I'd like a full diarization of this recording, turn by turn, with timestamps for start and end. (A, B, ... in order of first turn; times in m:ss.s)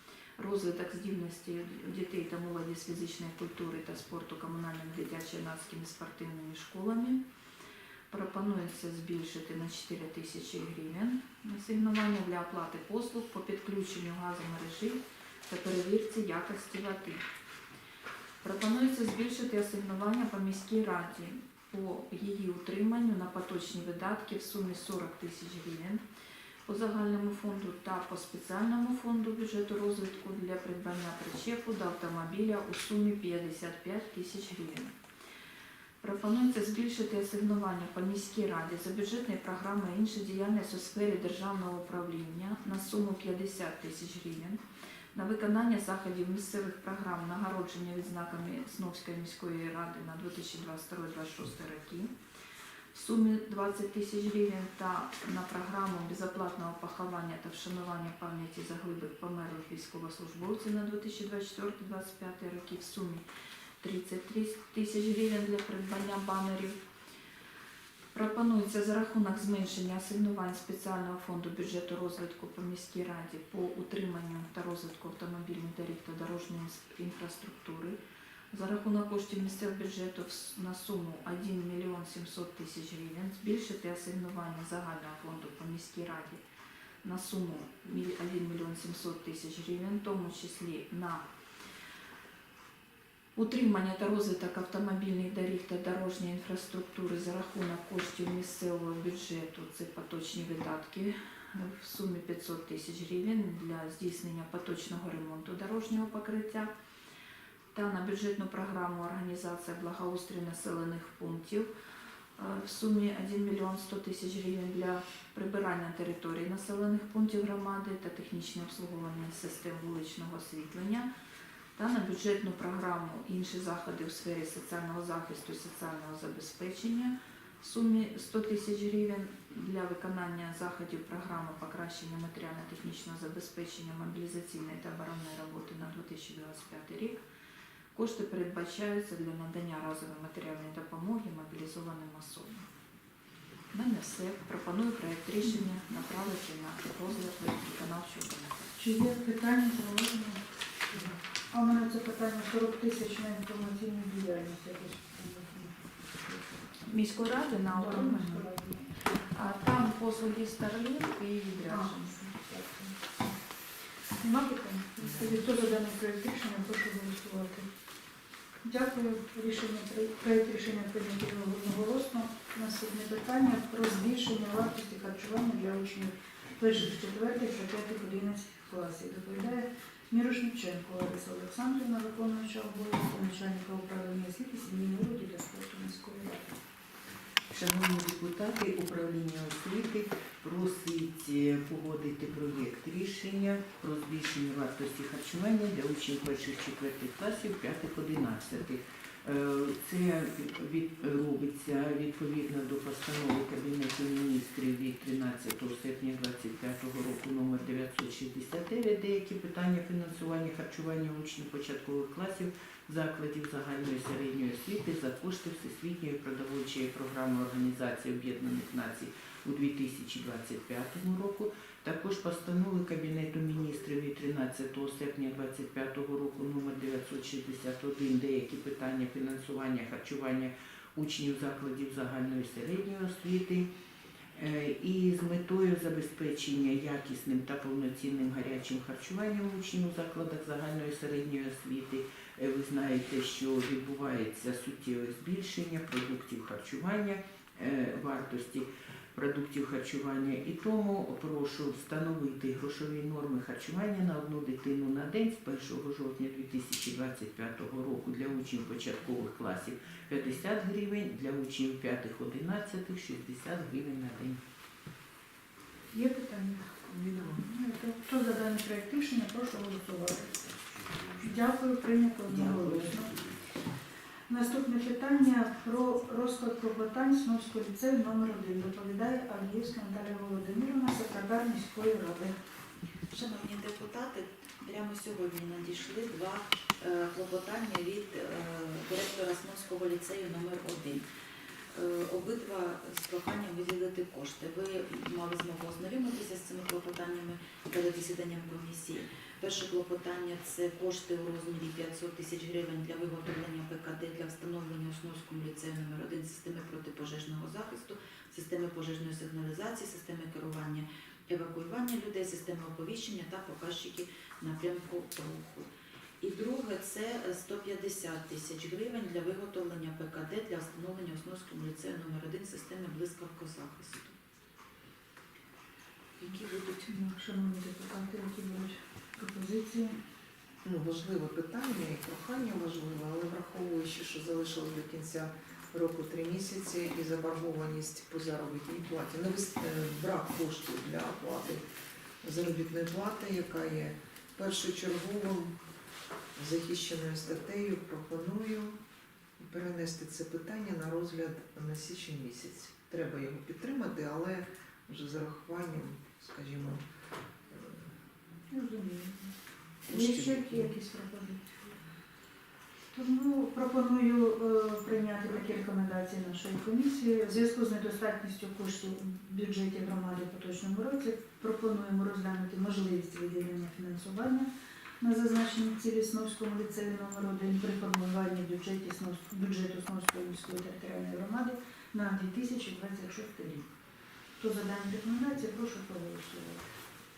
0:00.4-0:07.2 A
0:08.1-0:17.2 A
0:18.4-0:26.0 A
0:26.6-0:34.9 A
0:36.0-0:44.6 A
0:45.1-0:52.1 A
0:52.9-1:03.2 A
1:03.8-1:06.8 A
1:08.1-1:18.0 A
1:18.5-1:26.4 A
1:27.0-1:31.2 A
1:33.4-1:46.7 A
1:47.7-1:51.7 A
1:52.4-2:01.1 A
2:01.8-2:17.2 A
2:17.9-2:22.7 A
2:23.7-2:28.7 A
2:28.8-2:36.6 B
2:36.8-2:38.4 A
2:37.6-2:38.8 B
2:39.3-2:42.1 A
2:41.6-2:43.2 B
2:44.2-2:47.7 B
2:48.6-3:06.6 B
3:07.5-3:53.7 C
3:54.3-4:24.4 C
4:25.9-4:26.7 B
4:26.9-4:27.4 D
4:27.4-4:30.3 B
4:31.2-4:33.1 B
4:34.3-4:42.3 B
4:43.1-4:51.0 E
4:51.7-5:15.7 E
5:16.2-5:24.1 E
5:26.2-5:26.8 E
5:26.8-5:30.0 B
5:30.6-5:41.6 D
5:42.2-5:45.6 D
5:46.4-5:48.8 D
5:49.4-5:56.8 D
5:57.5-5:57.8 D
5:58.5-5:59.3 B
5:59.9-6:00.7 D
5:59.9-6:01.8 B
6:02.9-6:14.5 B
6:15.0-6:23.7 B
6:24.4-6:26.6 B